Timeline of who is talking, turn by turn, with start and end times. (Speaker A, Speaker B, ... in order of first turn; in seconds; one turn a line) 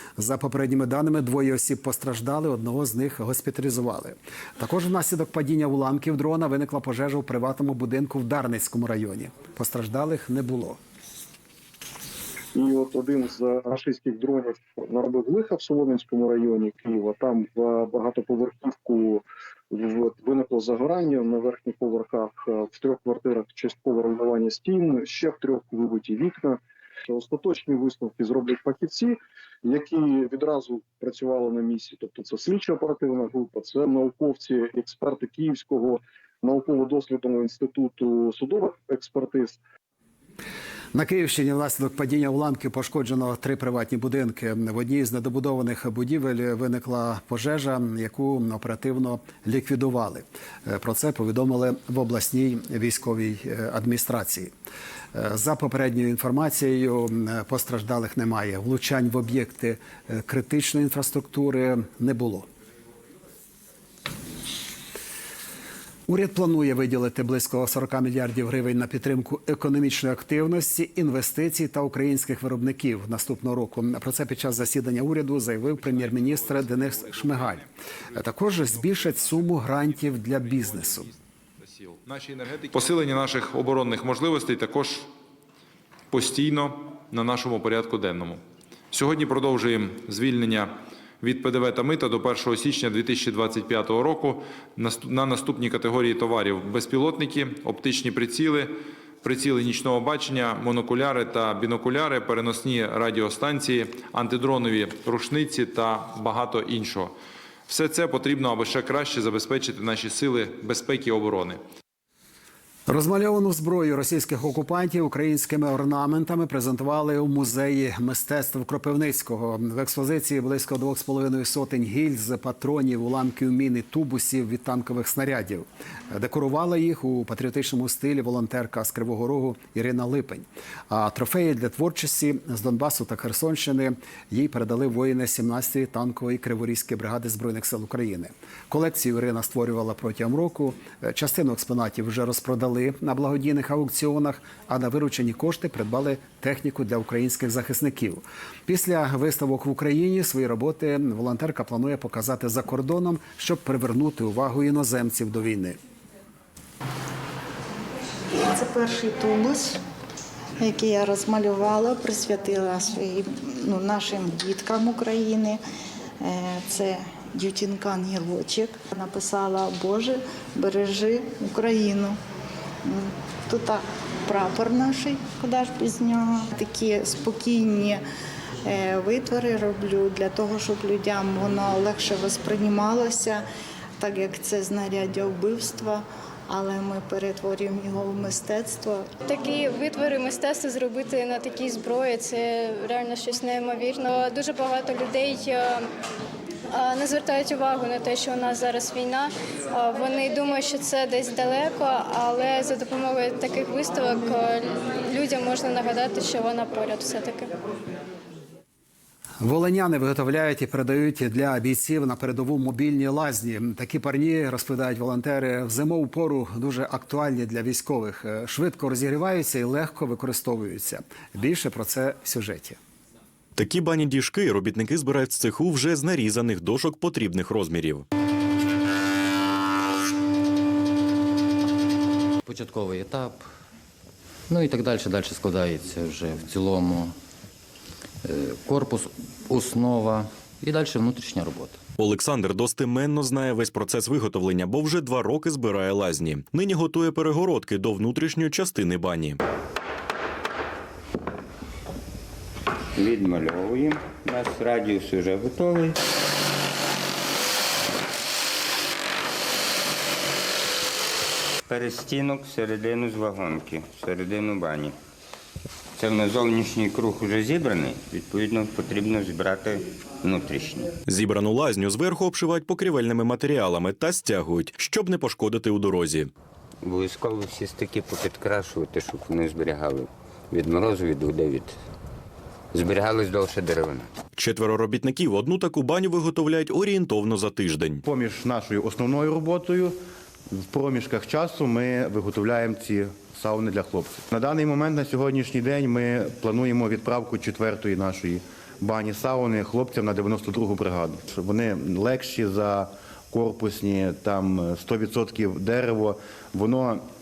Speaker A: 0.2-10.8
Speaker B: 12.6-39.6
Speaker A: 40.9-54.5
Speaker A: 55.1-62.5
Speaker A: 66.1-81.1
Speaker C: 75.7-77.7
Speaker C: 78.7-85.1
Speaker C: 86.1-107.2
Speaker C: 107.7-111.6
Speaker A: 112.9-155.8
Speaker D: 158.4-159.8
Speaker D: 160.6-165.6
Speaker D: 166.2-172.2
Speaker D: 172.8-178.0
Speaker D: 178.6-183.4
Speaker D: 184.0-189.1
Speaker E: 189.3-195.8
Speaker E: 196.7-207.5
Speaker A: 209.4-222.8
Speaker F: 223.6-228.1
Speaker G: 232.4-233.5
Speaker G: 234.5-237.2
Speaker G: 238.2-241.8
Speaker F: 242.0-249.4
Speaker H: 253.0-256.0
Speaker H: 261.7-264.9
Speaker H: 265.9-270.9
Speaker F: 271.1-276.3
Speaker H: 276.8-281.8
Speaker H: 282.7-284.1
Speaker F: 284.4-288.0
Speaker I: 288.0-290.0
Speaker I: 290.5-307.1